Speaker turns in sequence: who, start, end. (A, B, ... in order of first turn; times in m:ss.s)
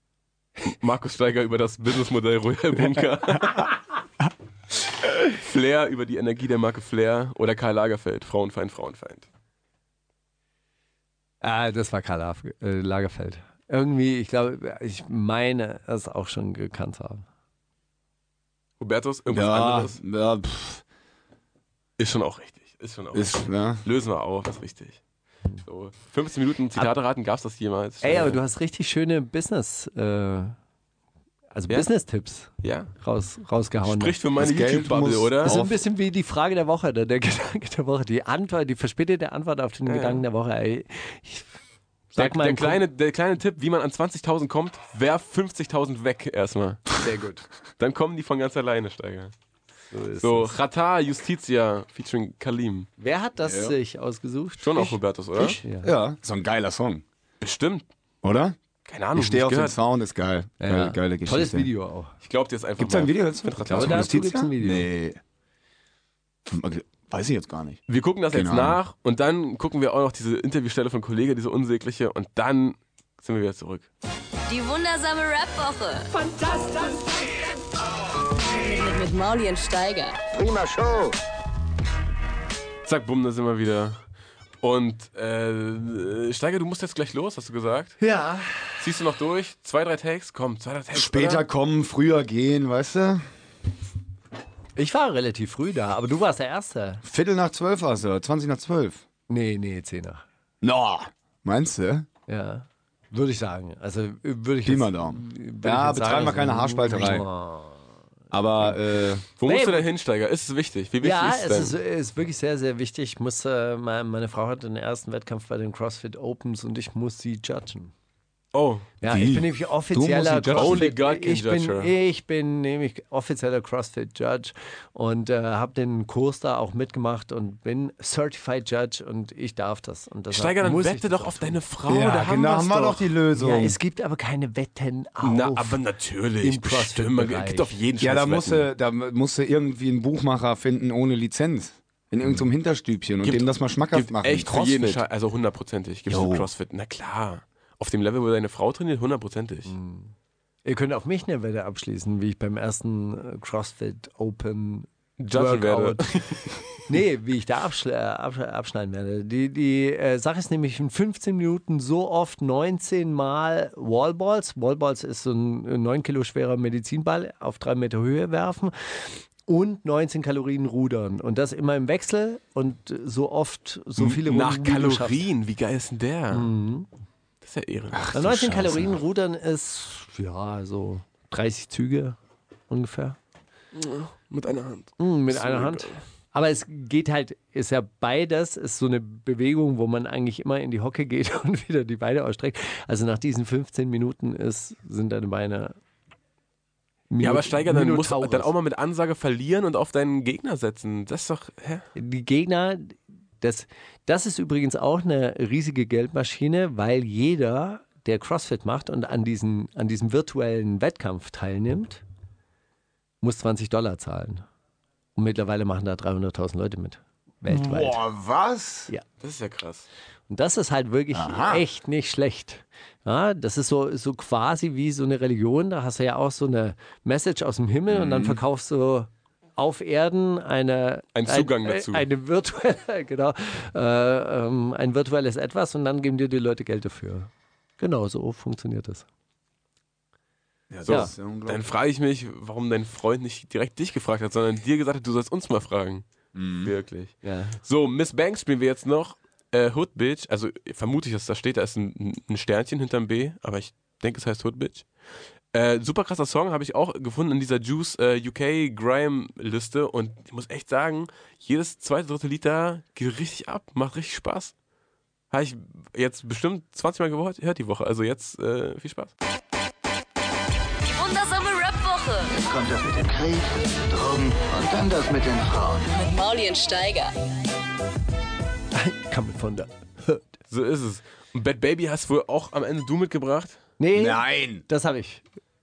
0:00.7-0:03.8 A
0:05.0-0:09.3 A
0:11.4-0:17.3 B
0:18.8-0:20.0 A
0:19.3-0:20.8 C
0:22.0-0:25.0 A
0:23.1-0:23.8 C
0:25.6-0:28.4 A
0:28.0-0:30.6 B
0:31.5-0:34.2 B
0:32.6-0:32.9 A
0:33.8-0:35.6 A
0:34.4-0:35.8 C
0:35.4-0:41.5 B
0:39.9-0:40.2 A
0:42.1-0:42.8 B
0:42.2-0:46.9 A
0:47.0-0:47.4 B
0:47.8-0:49.3 A
0:49.9-0:50.6 B
0:50.2-0:52.9 A
0:53.0-0:55.0 B
0:53.4-0:53.8 C
0:54.6-0:55.6 A
0:55.4-0:57.0 C
0:55.6-0:55.9 B
0:57.4-0:57.9 A
0:58.2-0:58.6 C
0:58.9-0:59.8 A
0:59.2-1:01.7 C
1:00.6-1:02.1 B
1:02.2-1:04.1 A
1:02.8-1:05.2 C
1:03.7-1:04.9 B
1:06.5-1:08.8 C
1:07.9-1:13.9 A
1:14.5-1:16.2 D
1:18.5-1:20.2 D
1:20.3-1:21.2 E
1:22.8-1:24.0 A
1:24.6-1:28.0 A
1:28.0-1:28.8 B
1:28.8-1:31.5 A
1:30.9-1:33.3 C
1:34.8-1:37.0 B
1:37.0-1:39.0 C
1:39.3-1:40.2 B
1:40.6-1:42.1 C
1:42.3-1:47.8 B
1:44.6-1:47.3 C
1:48.3-1:49.2 C
1:49.4-1:51.8 A
1:49.4-1:49.9 B
1:51.0-1:57.9 B
1:58.5-1:58.9 A
1:59.0-2:11.6 B
1:59.1-2:00.8 C
2:00.5-2:01.9 A
2:10.3-2:13.1 A
2:11.9-2:13.8 C
2:13.4-2:15.8 B
2:15.2-2:18.7 A
2:16.4-2:17.7 B
2:18.0-2:25.0 C
2:23.2-2:29.7 A
2:26.1-2:26.5 C
2:29.7-2:30.1 B
2:30.6-2:36.3 B
2:35.2-2:37.0 A
2:36.9-2:55.2 B
2:54.0-2:56.5 A
2:56.3-2:56.9 B
2:57.4-2:58.1 A
2:58.0-2:59.0 C
2:58.1-3:02.2 B
3:02.7-3:03.2 B
3:03.7-3:06.0 A
3:05.0-3:15.8 B
3:17.1-3:18.5 B
3:17.2-3:21.9 A
3:22.0-3:32.0 B
3:33.2-3:34.4 B
3:35.2-3:38.0 B
3:37.5-3:38.9 C
3:39.2-3:39.9 A
3:40.3-3:59.0 B
3:41.1-3:41.6 C
3:47.9-3:48.4 C
3:51.2-3:52.1 A
4:00.7-4:01.6 C
4:00.9-4:06.1 A
4:06.3-4:06.7 C
4:06.6-4:14.9 A
4:07.2-4:07.6 B
4:15.5-4:24.5 A
4:25.3-4:29.1 A
4:30.8-4:32.3 D
4:32.4-4:35.9 E
4:35.9-4:37.1 D
4:38.7-4:40.2 B
4:40.5-4:43.6 A
4:43.8-4:45.2 B
4:44.0-4:44.6 C